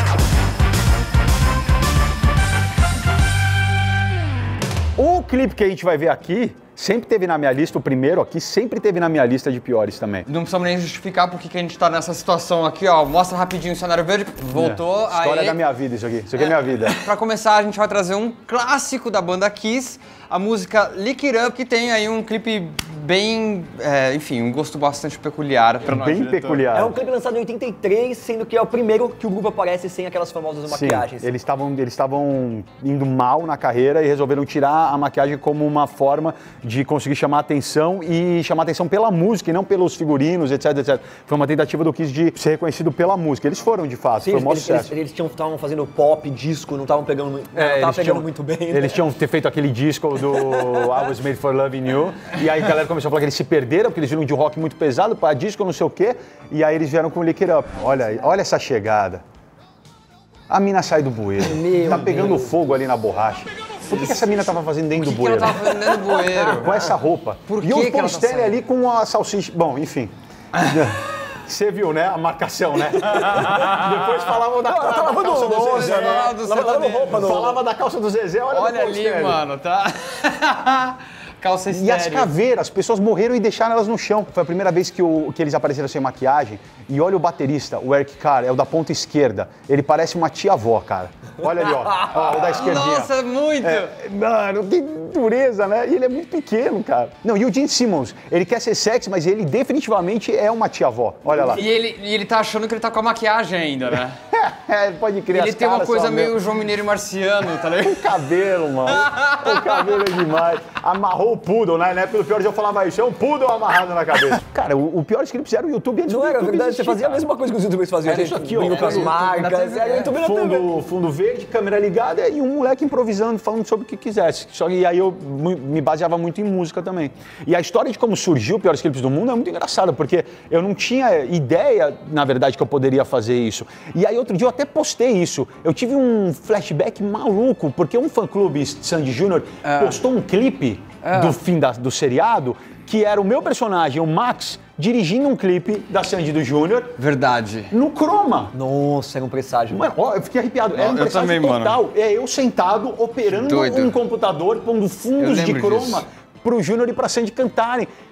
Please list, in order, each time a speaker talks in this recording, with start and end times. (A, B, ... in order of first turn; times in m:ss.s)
0:05.0-0:10.3 A
0:10.3-0:15.6 B
0:14.5-0:17.0 A
0:16.4-0:26.7 B
0:25.8-0:26.9 A
0:26.7-0:31.4 C
0:30.7-0:44.9 A
0:44.2-0:49.0 C
0:47.5-0:59.2 A
1:00.5-1:16.3 A
1:01.4-1:02.6 C
1:05.0-1:06.9 B
1:07.4-1:08.6 B
1:14.6-1:17.6 C
1:15.7-1:17.3 B
1:17.1-1:19.4 A
1:18.5-1:22.3 B
1:21.7-1:33.1 A
1:32.0-1:34.0 B
1:33.6-1:41.6 A
1:41.3-1:44.2 B
1:44.3-1:46.4 A
1:45.3-1:48.3 B
1:47.8-1:57.2 A
1:48.9-1:50.0 B
1:56.1-2:00.7 C
1:58.0-1:59.2 A
1:58.6-2:00.2 B
2:00.2-2:27.0 A
2:19.6-2:20.0 B
2:21.0-2:21.4 B
2:27.0-2:27.7 B
2:27.7-2:28.5 A
2:28.5-2:29.9 C
2:29.7-2:37.9 A
2:30.7-2:31.8 B
2:33.3-2:34.0 B
2:35.2-2:36.0 B